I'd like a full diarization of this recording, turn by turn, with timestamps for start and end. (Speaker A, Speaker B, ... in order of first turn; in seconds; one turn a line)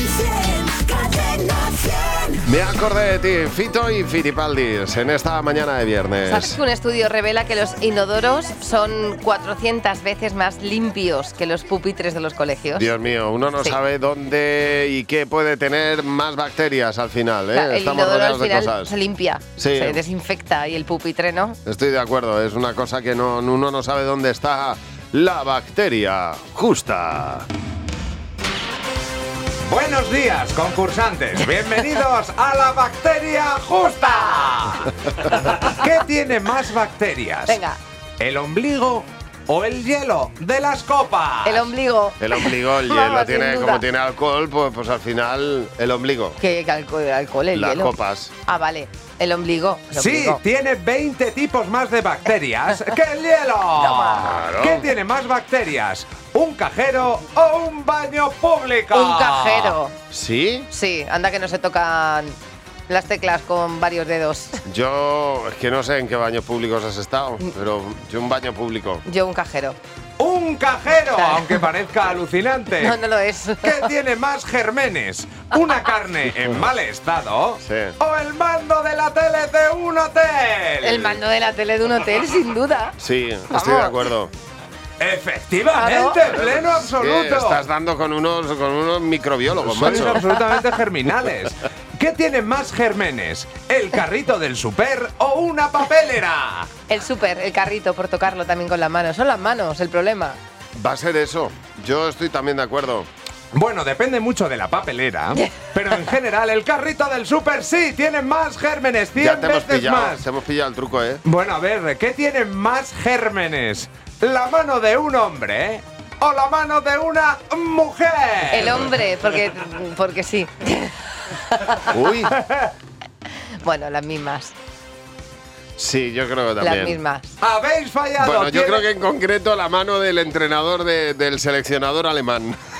Speaker A: 0.2-0.6
Speaker A: 1.5-1.7
Speaker B: 2.4-6.6
Speaker A: 6.2-12.9
Speaker B: 12.7-18.9
Speaker A: 17.5-21.6
Speaker B: 19.6-20.0
Speaker B: 21.6-27.5
Speaker C: 29.6-37.6
Speaker A: 37.5-37.8
Speaker C: 38.2-41.7
Speaker A: 41.4-43.8
Speaker B: 42.2-46.4
Speaker A: 46.4-50.4
Speaker B: 47.5-48.3
Speaker C: 49.9-59.8
Speaker A: 53.8-54.4
Speaker B: 54.1-54.9
Speaker A: 58.9-59.9
Speaker B: 60.1-60.7
Speaker A: 60.7-62.4
Speaker A: 62.9-64.6
Speaker B: 64.6-69.0
Speaker A: 69.0-69.8
Speaker C: 70.2-73.0
Speaker A: 71.2-71.6
Speaker A: 72.7-73.9
Speaker C: 73.6-81.2
Speaker B: 77.6-78.0
Speaker A: 80.8-82.9
Speaker B: 83.0-84.3
Speaker A: 83.5-84.0
Speaker C: 85.0-87.6
Speaker A: 85.7-86.3
Speaker B: 86.3-90.2
Speaker C: 89.6-96.7
Speaker A: 90.0-90.4
Speaker A: 96.9-100.4
Speaker B: 100.8-103.1
Speaker C: 103.5-110.2
Speaker A: 105.3-105.7
Speaker B: 109.2-111.2
Speaker C: 111.2-118.9
Speaker A: 118.5-122.0
Speaker B: 121.8-122.3
Speaker C: 122.3-122.7
Speaker A: 123.6-124.5
Speaker B: 125.8-127.0
Speaker A: 126.6-127.3
Speaker C: 127.4-128.9
Speaker B: 128.2-132.6